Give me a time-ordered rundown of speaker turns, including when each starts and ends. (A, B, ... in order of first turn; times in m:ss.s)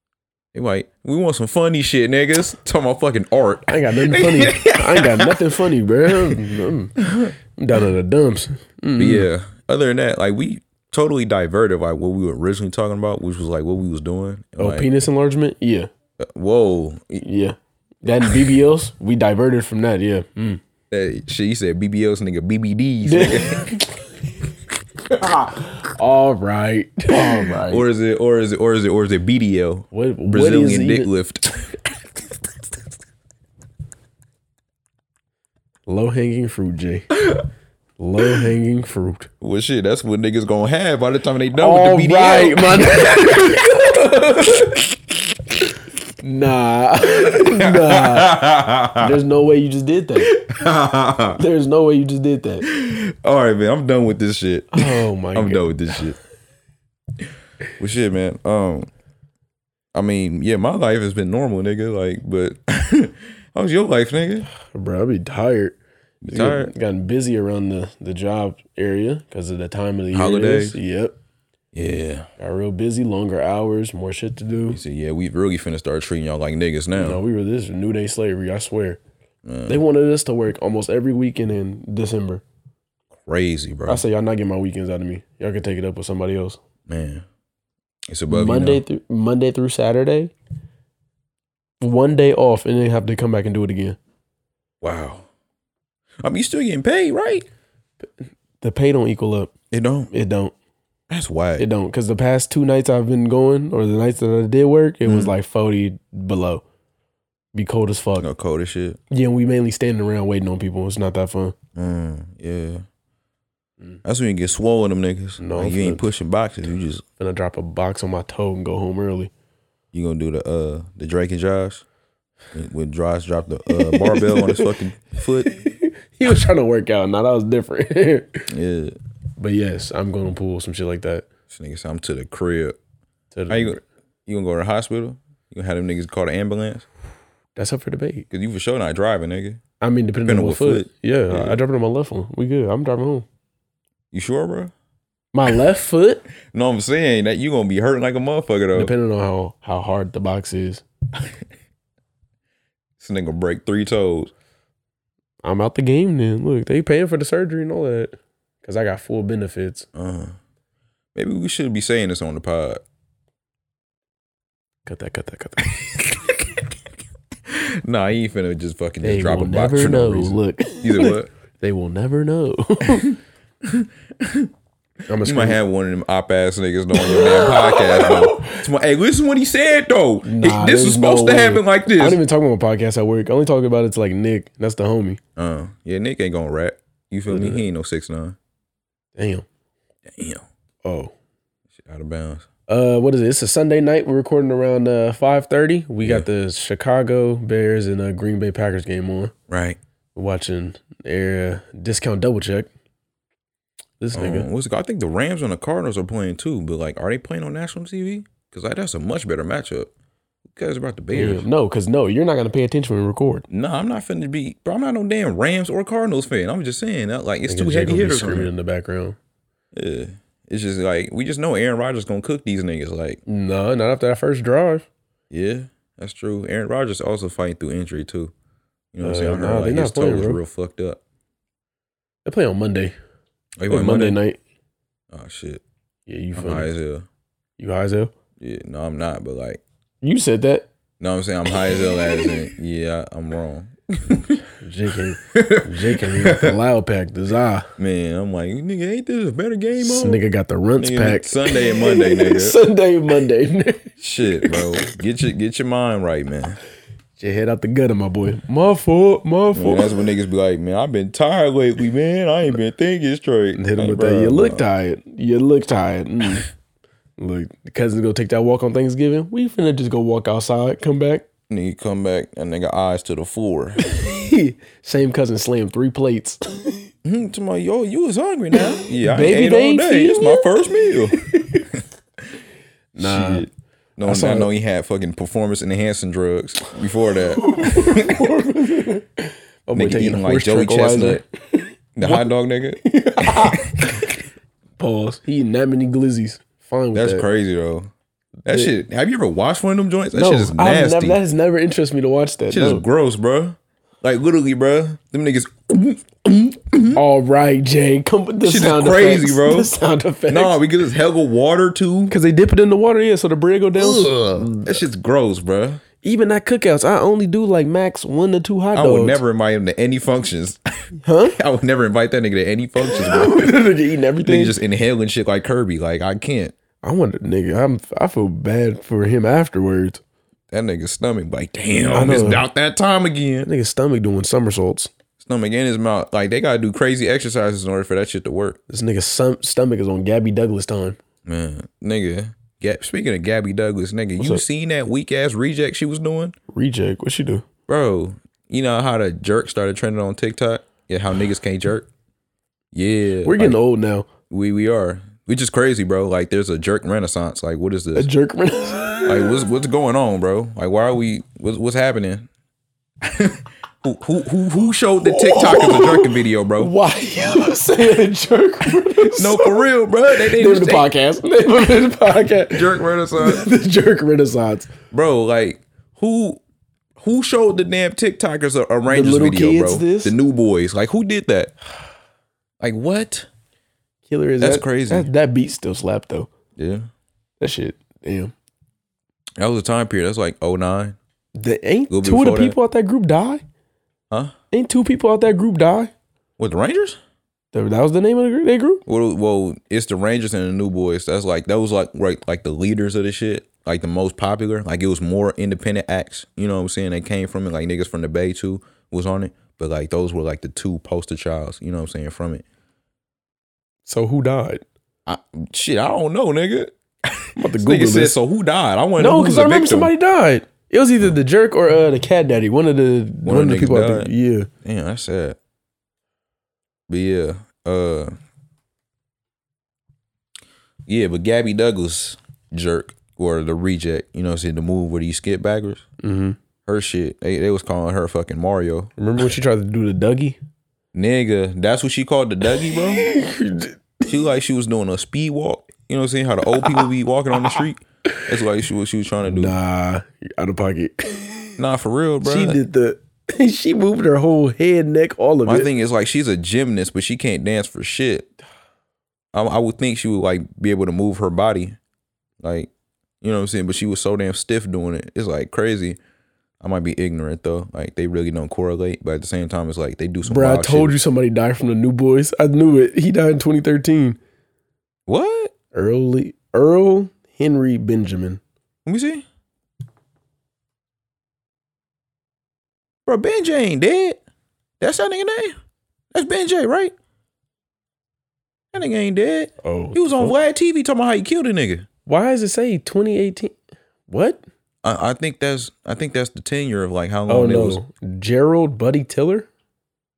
0:00.5-0:05.4 A
0:03.7-0:09.3 B
0:06.1-0:06.4 A
0:07.0-0:07.3 A
0:09.0-0:14.9 A
0:14.6-0:15.9 B
0:16.2-0:17.2 A
0:17.2-0:20.6 B
0:20.9-0:23.8 A
0:23.0-0:24.1 B
0:25.1-0:27.8 B
0:27.1-0:32.0 A
0:29.9-0:31.1 B
0:35.9-0:37.1 B
0:38.0-0:39.3 B
0:39.4-0:43.8 A
0:41.6-0:44.8 B
0:46.2-0:48.4 B
0:47.2-0:49.1 A
0:49.0-0:50.3 B
0:50.2-0:51.4 A
0:51.3-0:52.6 B
0:52.6-0:56.2 A
0:54.7-0:56.0 B
0:57.8-0:58.9 A
0:59.9-1:04.5 A
1:04.6-1:05.8 B
1:06.2-1:06.7 A
1:06.3-1:11.2 B
1:10.1-1:10.8 A
1:11.7-1:12.3 A
1:12.4-1:14.8 B
1:14.7-1:17.2 A
1:16.9-1:19.0 B
1:19.4-1:19.8 A
1:19.7-1:22.4 B
1:23.2-1:24.0 A
1:23.8-1:26.6 B
1:26.9-1:27.2 A
1:28.1-1:28.8 A
1:28.3-1:30.3 B
1:31.8-1:34.0 B
1:34.8-1:35.2 A
1:36.2-1:37.4 A
1:38.6-1:39.5 B
1:39.7-1:40.1 A
1:40.1-1:40.5 B
1:41.1-1:41.6 A
1:41.6-1:46.6 B
1:45.0-1:45.3 A
1:47.5-1:48.3 B
1:48.2-1:49.0 A
1:49.1-1:51.5 B
1:51.8-1:52.8 A
1:54.0-1:57.0 A
1:55.4-1:56.0 B
1:57.2-1:59.3 B
1:59.9-2:01.8 A
2:02.5-2:05.5 A
2:03.7-2:04.7 B
2:05.4-2:08.5 B
2:08.5-2:09.0 A
2:09.4-2:11.2 B
2:11.5-2:12.8 A
2:13.3-2:13.8 B
2:13.5-2:16.8 A
2:17.6-2:18.3 B
2:18.3-2:19.6 A
2:19.8-2:23.3 B
2:20.2-2:21.6 A
2:24.1-2:24.7 A
2:25.3-2:26.2 B
2:26.4-2:28.9 A
2:28.7-2:30.8 B
2:33.0-2:34.3 A
2:35.4-2:39.9 B
2:39.9-2:40.4 A
2:41.1-2:42.8 A
2:44.8-2:45.7 B
2:45.8-2:46.6 A
2:47.5-2:51.3 A
2:49.0-2:53.2 B
2:52.9-2:54.5 A
2:55.1-2:55.6 B
2:55.2-3:02.2 A
2:56.9-2:58.6 B
3:00.2-3:05.2 B
3:05.4-3:08.4 A
3:07.3-3:07.6 B
3:09.2-3:09.4 B
3:10.1-3:10.4 A
3:10.8-3:11.1 B
3:11.8-3:12.4 A
3:12.7-3:19.3 B
3:16.0-3:16.3 A
3:19.5-3:19.8 A
3:20.1-3:22.7 B
3:24.0-3:24.5 B
3:24.1-3:29.9 A
3:30.5-3:31.4 A
3:31.1-3:33.4 B
3:33.5-3:38.5 A
3:37.5-3:39.2 B
3:39.7-3:43.2 A
3:43.3-3:44.8 B
3:45.3-3:48.3 A
3:48.9-3:51.0 A
3:49.0-3:50.4 B
3:52.2-3:52.9 B
3:53.6-3:54.2 A
3:53.7-3:54.4 B
3:55.1-3:55.6 A
3:56.1-3:56.7 B
3:56.4-3:57.0 A
3:57.6-3:58.1 B
3:58.4-3:59.6 A
4:00.0-4:00.7 B
4:01.0-4:04.4 A
4:04.6-4:07.7 B
4:05.2-4:06.6 A
4:07.8-4:10.2 A
4:09.8-4:13.9 B
4:10.8-4:12.6 A
4:14.0-4:16.6 A
4:14.4-4:14.9 B
4:17.2-4:20.0 B
4:19.5-4:24.6 A
4:23.6-4:26.5 B
4:27.2-4:31.2 B
4:31.5-4:33.8 A
4:33.8-4:36.9 B
4:37.0-4:41.8 A
4:38.6-4:40.4 B
4:41.2-4:41.6 B
4:42.9-4:43.5 B
4:43.0-4:48.3 A
4:44.0-4:44.5 B
4:47.4-4:52.3 B
4:49.7-4:51.2 A
4:52.0-4:54.0 A
4:52.8-4:54.2 B
4:54.8-4:57.2 B
4:56.9-4:57.9 A
4:58.4-5:01.2 A
4:58.4-4:58.7 B
5:00.1-5:02.8 B
5:02.5-5:07.0 A
5:06.9-5:10.6 B
5:08.4-5:09.7 A
5:10.3-5:12.1 A
5:12.1-5:14.8 B
5:13.7-5:15.8 A
5:16.0-5:19.2 B
5:18.7-5:20.6 A
5:21.0-5:21.4 B
5:21.3-5:23.5 A
5:22.8-5:24.5 B
5:24.2-5:26.5 A
5:26.8-5:30.0 B
5:30.5-5:33.5 A
5:31.8-5:32.4 B
5:33.4-5:34.9 B
5:35.2-5:38.6 A
5:38.7-5:41.0 B
5:41.2-5:46.3 A
5:44.2-5:44.4 B
5:46.5-5:47.4 B
5:47.7-5:51.9 A
5:52.7-5:53.6 A
5:53.2-5:54.1 B
5:54.3-5:58.1 A
5:57.9-5:59.4 B
5:59.1-6:02.3 A
6:03.0-6:06.7 A
6:05.0-6:14.7 B
6:08.9-6:10.9 A
6:12.5-6:13.5 A
6:14.9-6:16.4 A
6:17.0-6:21.5 A
6:18.9-6:20.1 B
6:22.6-6:23.3 A
6:24.1-6:26.3 B
6:24.4-6:25.1 A
6:26.6-6:26.9 A
6:27.4-6:28.3 B
6:29.4-6:31.0 A
6:31.4-6:33.4 B
6:31.9-6:32.6 A
6:34.5-6:35.9 B
6:36.4-6:37.0 A
6:37.5-6:38.8 B
6:38.8-6:52.4 A
6:53.8-6:54.6 B
6:55.0-6:59.9 A
6:57.4-6:58.1 B
6:59.0-7:04.5 B
7:03.2-7:04.1 A
7:04.6-7:05.4 A
7:06.9-7:08.1 A
7:10.9-7:15.8 A
7:16.0-7:16.4 B
7:16.6-7:18.9 A
7:19.0-7:20.4 B
7:20.9-7:23.1 A
7:22.7-7:24.0 B
7:24.0-7:29.6 A
7:29.2-7:31.6 B
7:31.6-7:32.6 A
7:32.2-7:35.7 B
7:35.4-7:38.3 A
7:39.3-7:41.8 A
7:42.4-7:46.0 A
7:46.6-7:50.9 A
7:50.2-7:54.2 B
7:55.1-7:55.5 A
7:55.7-7:58.4 B
7:58.8-7:59.2 A
8:03.0-8:04.2 A
8:04.8-8:05.5 A
8:06.1-8:06.9 A
8:08.7-8:11.8 A
8:09.6-8:10.4 B
8:12.1-8:13.5 B
8:14.1-8:14.4 B
8:14.8-8:17.8 A
8:17.3-8:19.5 B